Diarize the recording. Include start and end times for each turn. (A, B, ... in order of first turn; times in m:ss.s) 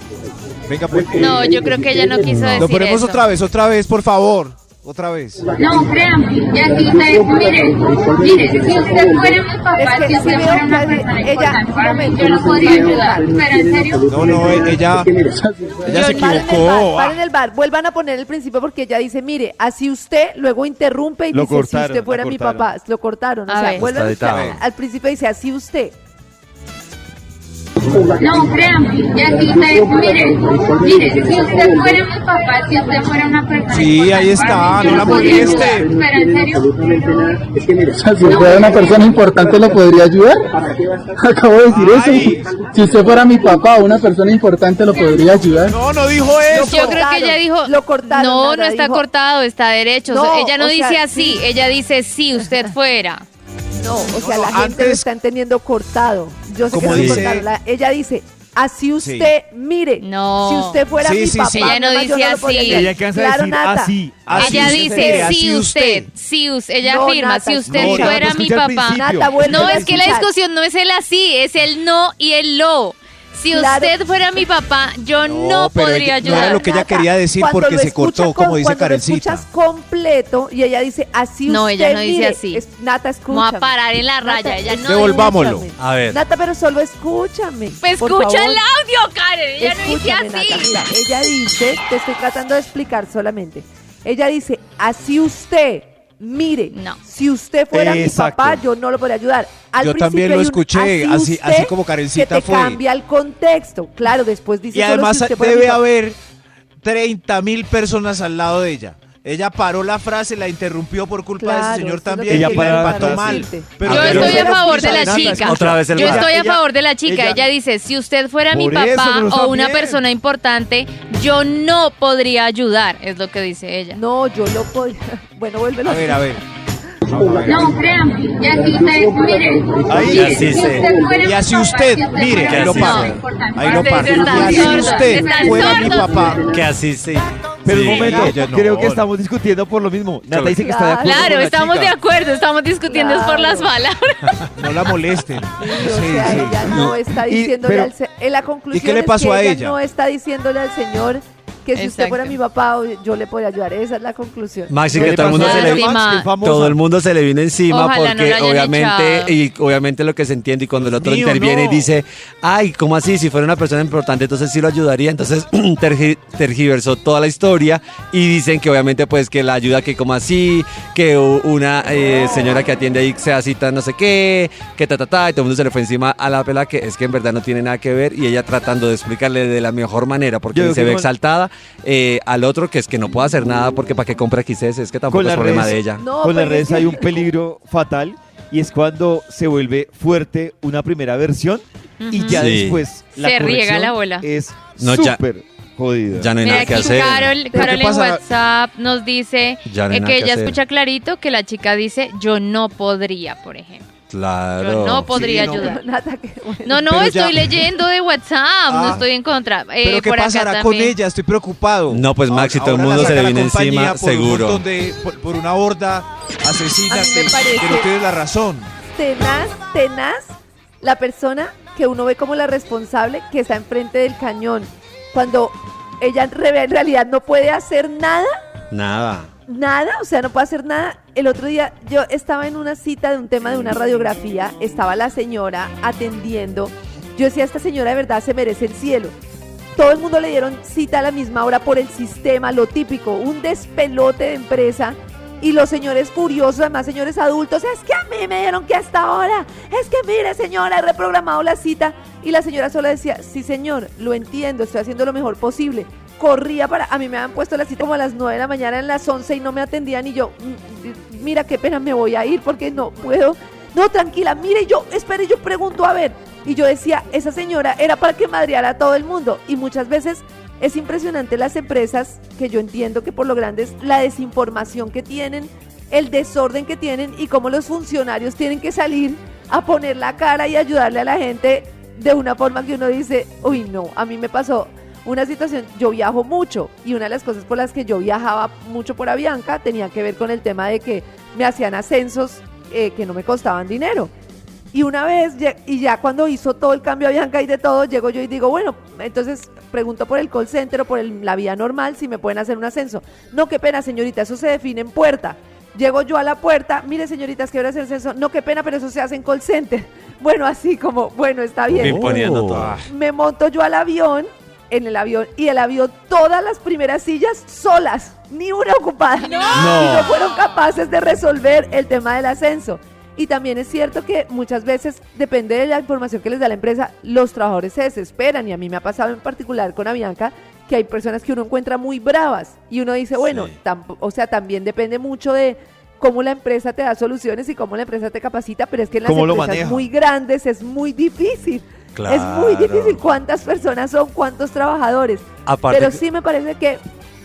0:00.7-0:01.6 A
0:01.1-0:03.2 B
0:02.4-0:05.6 A
0:05.7-0:09.8 C
0:09.8-0:13.3 D
0:13.4-0:14.0 C
0:14.0-0:15.2 A
0:15.6-0:16.0 E
0:15.8-0:17.2 A
0:15.9-0:25.9 D
0:21.3-0:22.7 F
0:23.5-0:23.8 B
0:23.8-0:24.6 G
0:24.1-0:24.6 A
0:28.3-0:34.5 C
0:33.7-0:35.9 A
0:35.4-0:37.2 C
0:37.8-0:40.5 E
0:41.2-0:45.8 E
0:41.7-0:42.5 A
0:45.7-0:47.0 A
0:46.5-0:49.0 D
0:46.5-0:53.2 B
0:50.1-0:51.4 D
0:53.8-1:03.9 D
0:54.2-0:55.1 A
0:56.7-0:57.5 A
0:59.0-0:59.3 A
1:00.0-1:00.8 B
1:01.0-1:01.8 A
1:01.5-1:02.9 B
1:02.6-1:05.3 F
1:04.3-1:06.1 A
1:04.3-1:16.7 B
1:06.8-1:08.2 D
1:07.7-1:09.7 F
1:08.9-1:10.3 D
1:09.6-1:09.9 A
1:13.5-1:13.9 D
1:15.2-1:19.4 A
1:16.2-1:28.6 D
1:21.5-1:22.6 B
1:23.3-1:25.4 B
1:24.8-1:25.7 A
1:25.8-1:26.2 G
1:27.8-1:30.8 B
1:29.6-1:45.8 D
1:36.7-1:37.0 B
1:37.7-1:38.6 F
1:39.8-1:42.8 A
1:44.7-1:46.2 A
1:46.8-1:54.9 A
1:51.4-1:55.0 D
1:52.3-1:57.4 F
1:53.8-1:54.4 G
1:53.9-2:04.0 B
1:55.3-1:56.3 G
1:58.5-2:00.0 F
2:03.9-2:06.4 D
2:05.8-2:06.4 A
2:07.0-2:07.9 A
2:08.1-2:09.6 C
2:09.9-2:10.6 F
2:10.0-2:10.9 G
2:10.9-2:11.3 C
2:11.1-2:16.5 A
2:11.9-2:12.3 C
2:12.3-2:13.2 G
2:12.6-2:16.4 B
2:13.4-2:13.8 C
2:16.4-2:18.3 G
2:17.6-2:21.9 F
2:17.7-2:19.1 A
2:20.3-2:20.6 G
2:20.6-2:21.3 D
2:21.0-2:24.4 B
2:22.9-2:23.7 D
2:24.6-2:26.7 A
2:25.6-2:34.7 D
2:26.7-2:27.9 F
2:28.7-2:29.8 A
2:31.7-2:32.4 B
2:34.7-3:06.0 G
2:34.9-2:36.8 F
2:35.1-2:36.3 B
2:37.7-2:39.3 B
2:40.8-2:41.9 A
3:00.5-3:01.1 F
3:05.1-3:16.4 F
3:06.0-3:07.2 D
3:12.0-3:12.5 B
3:12.3-3:12.8 G
3:13.1-3:14.3 B
3:14.8-3:15.2 G
3:16.1-3:17.4 G
3:16.4-3:23.9 B
3:17.5-3:18.2 A
3:19.6-3:20.6 G
3:24.1-3:25.1 G
3:24.6-3:25.8 B
3:25.1-3:25.8 A
3:25.3-3:26.9 D
3:26.6-3:30.9 B
3:26.9-3:27.6 A
3:28.7-3:29.0 A
3:29.8-3:38.7 A
3:31.9-3:34.6 G
3:36.9-3:37.9 D
3:38.9-3:48.3 D
3:48.7-3:49.3 G
3:49.5-3:59.1 D
3:59.8-4:54.1 D
4:54.7-5:12.2 D
5:11.7-5:12.8 G
5:12.5-5:12.9 A
5:12.9-5:46.8 D
5:19.5-5:20.1 F
5:33.2-5:33.5 G
5:39.0-5:39.9 F
5:41.9-5:43.0 G
5:45.4-5:46.0 G